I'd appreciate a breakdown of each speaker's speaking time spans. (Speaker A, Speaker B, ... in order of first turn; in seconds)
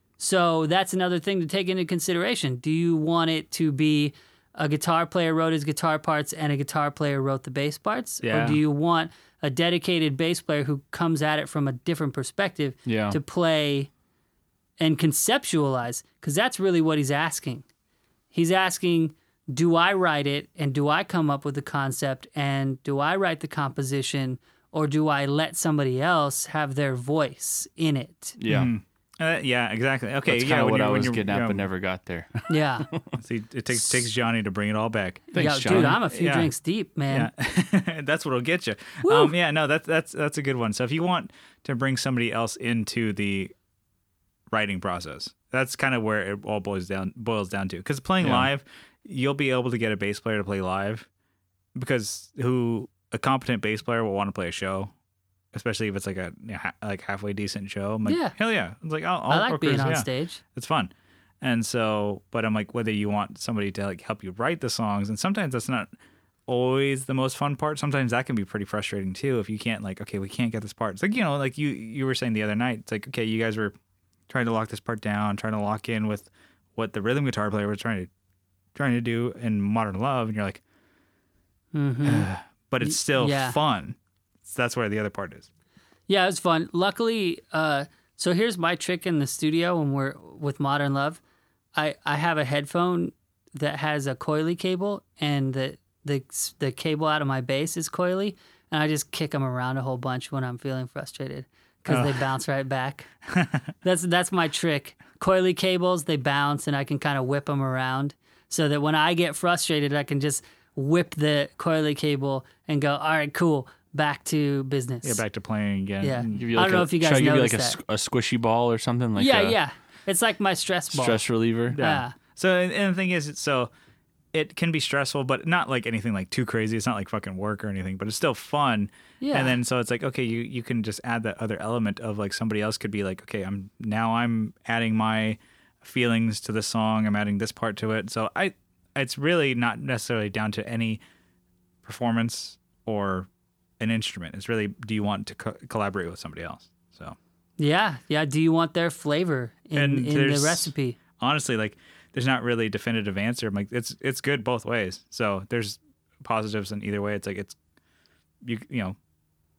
Speaker A: 0.2-13.9, 14.8-17.6, 18.3-28.4, 32.5-32.9, 35.4-37.3, 39.0-39.3, 58.0-58.4, 59.3-60.4, 81.7-82.3, 82.8-83.6, 86.1-91.2, 91.8-103.1, 103.8-115.2, 116.0-117.8, 119.2-122.2, 129.2-129.6, 147.6-151.0
Speaker B: 8.2-8.6, 28.5-31.6, 33.2-36.5, 37.1-43.5, 44.5-51.1, 51.8-54.9, 55.5-60.9, 61.4-65.9, 66.5-73.8, 74.3-78.1, 78.8-80.6, 82.0-85.5, 101.9-102.2, 115.0-116.5, 121.7-123.7, 124.3-141.0, 141.8-143.3, 143.8-147.2, 149.8-157.6, 158.4-159.0
Speaker C: 12.9-13.2, 28.4-28.7, 30.3-33.1, 35.3-36.0, 48.2-48.5, 116.3-119.6, 120.9-121.8